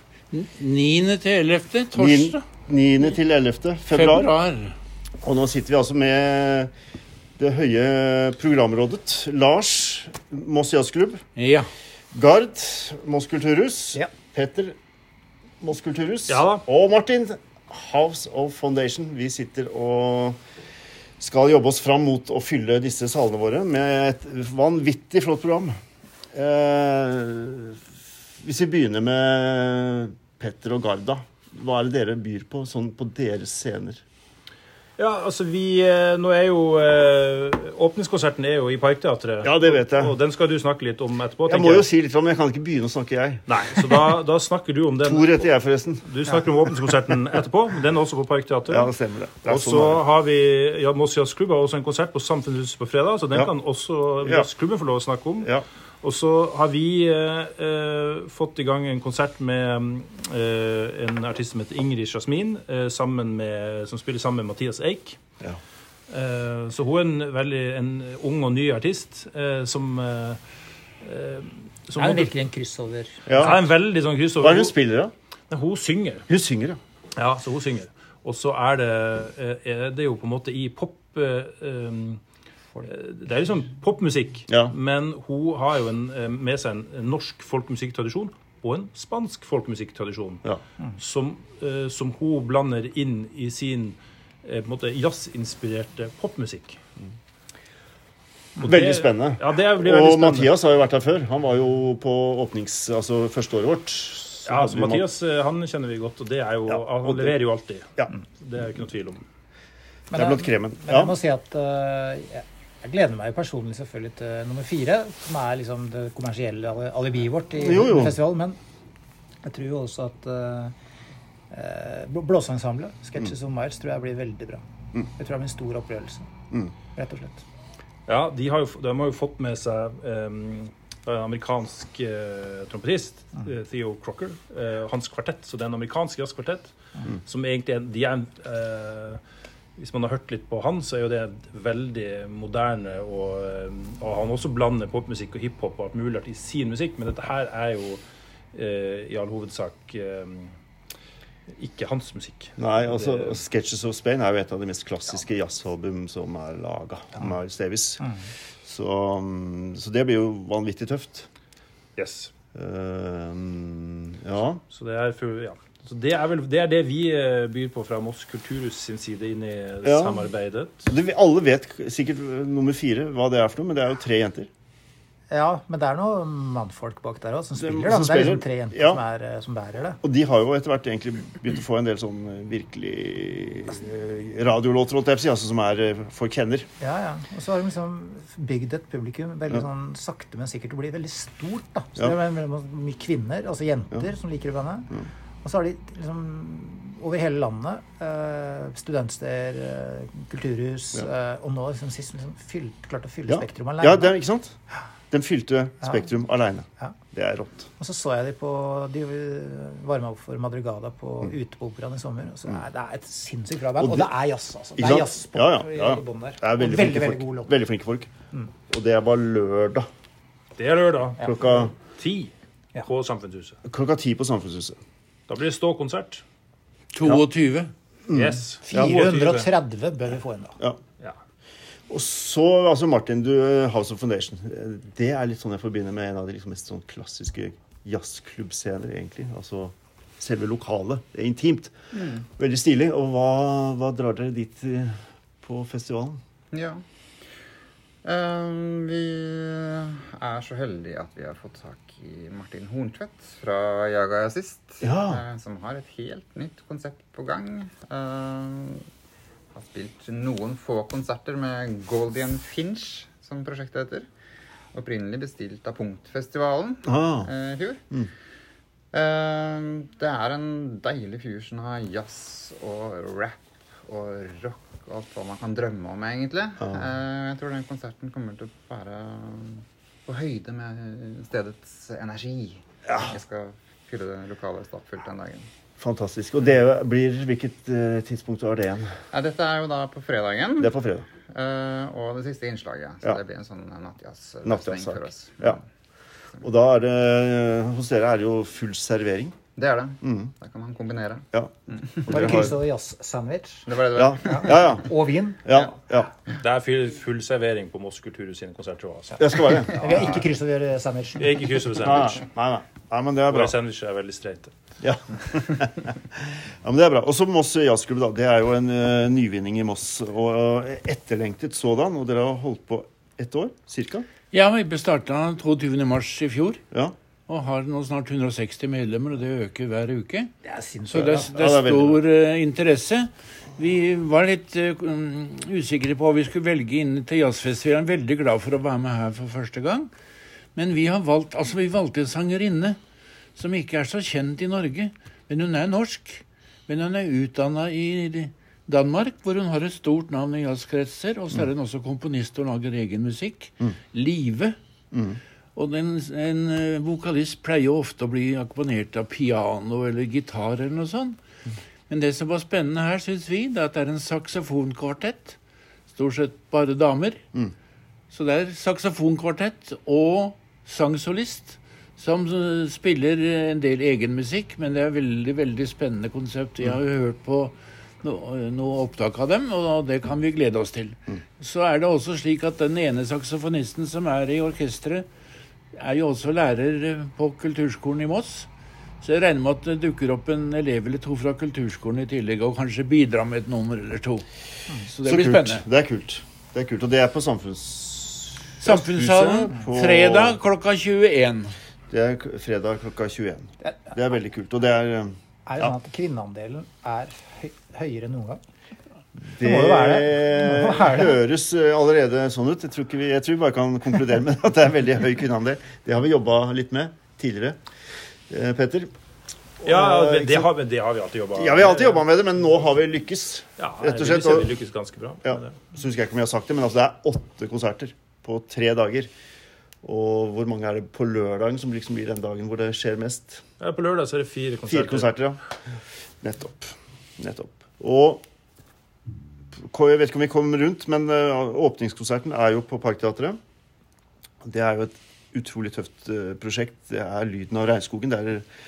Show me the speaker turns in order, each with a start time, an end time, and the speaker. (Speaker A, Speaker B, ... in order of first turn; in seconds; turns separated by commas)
Speaker A: 0.3-2.4, Speaker B: 1.9-4.3, Speaker A: 3.9-4.7, Speaker B: 5.2-6.7, Speaker B: 7.4-11.2, Speaker A: 11.3-11.7, Speaker B: 12.1-14.8, Speaker B: 15.6-20.4, Speaker C: 16.3-16.6, Speaker B: 21.2-25.7, Speaker B: 26.3-27.8, Speaker B: 28.4-34.0, Speaker C: 35.0-41.9, Speaker B: 39.4-40.1, Speaker B: 41.5-43.9, Speaker C: 43.5-45.5, Speaker B: 45.0-46.5, Speaker C: 46.0-48.9, Speaker B: 48.7-50.0, Speaker C: 49.4-55.5, Speaker C: 56.0-65.2, Speaker C: 66.1-70.4, Speaker C: 71.0-72.3, Speaker D: 72.0-73.2, Speaker B: 73.2-73.6, Speaker C: 73.4-74.8, Speaker B: 74.4-75.1, Speaker C: 75.5-76.2, Speaker B: 76.3-76.8, Speaker C: 77.2-82.2, Speaker C: 82.8-90.4, Speaker B: 84.5-84.7, Speaker C: 91.0-96.8, Speaker C: 98.6-100.6, Speaker B: 98.6-105.1, Speaker C: 104.5-109.2, Speaker B: 106.7-107.3, Speaker B: 110.1-111.2, Speaker D: 110.1-118.6, Speaker B: 117.5-118.2, Speaker D: 119.4-120.7, Speaker D: 121.5-126.3, Speaker D: 126.9-127.4, Speaker C: 128.1-139.2, Speaker C: 139.8-148.0, Speaker C: 148.5-150.5, Speaker C: 151.5-153.4, Speaker B: 152.6-158.1, Speaker B: 158.6-161.3, Speaker C: 162.0-162.3, Speaker B: 162.5-164.6, Speaker C: 164.7-170.9, Speaker B: 169.8-170.3, Speaker B: 170.9-174.5, Speaker D: 175.3-180.0, Speaker B: 177.6-179.0, Speaker B: 180.0-186.7, Speaker D: 186.8-204.1, Speaker B: 203.3-204.6, Speaker B: 205.1-207.7, Speaker D: 207.8-217.5, Speaker B: 213.8-214.1, Speaker B: 214.8-218.1, Speaker B: 218.7-219.8, Speaker C: 220.6-223.6, Speaker B: 221.2-221.7, Speaker B: 223.6-224.8, Speaker C: 225.3-226.2, Speaker A: 226.9-227.7, Speaker B: 228.1-229.1, Speaker C: 228.1-229.5, Speaker D: 228.6-230.6, Speaker B: 231.9-241.7, Speaker E: 241.9-242.2, Speaker B: 242.3-246.2, Speaker E: 246.5-246.8, Speaker E: 248.0-258.8, Speaker B: 254.8-255.2, Speaker E: 259.5-264.1, Speaker E: 264.7-267.8, Speaker B: 266.9-267.3, Speaker E: 268.9-285.5, Speaker B: 282.9-283.1, Speaker B: 285.8-288.9, Speaker E: 289.1-290.8, Speaker B: 290.6-291.1, Speaker E: 291.3-295.6, Speaker B: 294.4-295.6, Speaker B: 296.4-299.3, Speaker E: 299.6-302.5, Speaker B: 300.0-300.3, Speaker B: 302.1-302.6, Speaker D: 302.1-303.6, Speaker E: 303.6-304.9, Speaker B: 303.9-304.9, Speaker D: 304.3-305.4, Speaker B: 305.4-306.1, Speaker C: 306.4-309.9, Speaker B: 309.2-310.2, Speaker D: 309.8-311.2, Speaker C: 311.2-312.2, Speaker B: 311.7-313.6, Speaker C: 313.3-314.5, Speaker B: 314.8-316.0, Speaker B: 316.6-324.1, Speaker A: 324.3-326.6, Speaker A: 327.3-330.3, Speaker D: 330.4-331.2, Speaker A: 330.9-339.9, Speaker B: 331.0-332.0, Speaker A: 340.5-342.8, Speaker A: 343.4-354.5, Speaker B: 354.9-355.2, Speaker A: 355.5-361.2, Speaker A: 361.9-365.4, Speaker A: 365.9-367.2, Speaker A: 368.1-385.1, Speaker A: 385.7-388.5, Speaker A: 389.0-394.2, Speaker A: 394.8-395.6, Speaker B: 395.0-400.4, Speaker A: 398.6-401.5, Speaker B: 401.9-405.7, Speaker D: 405.4-408.4, Speaker B: 409.2-417.6, Speaker D: 409.4-411.1, Speaker B: 418.3-418.9, Speaker B: 419.6-420.5, Speaker C: 419.6-422.0, Speaker B: 421.3-424.5, Speaker C: 423.6-425.6, Speaker B: 425.2-429.1, Speaker B: 429.8-433.4, Speaker C: 433.6-435.1, Speaker B: 434.7-435.4, Speaker B: 436.2-438.2, Speaker B: 439.7-443.4, Speaker B: 444.4-448.4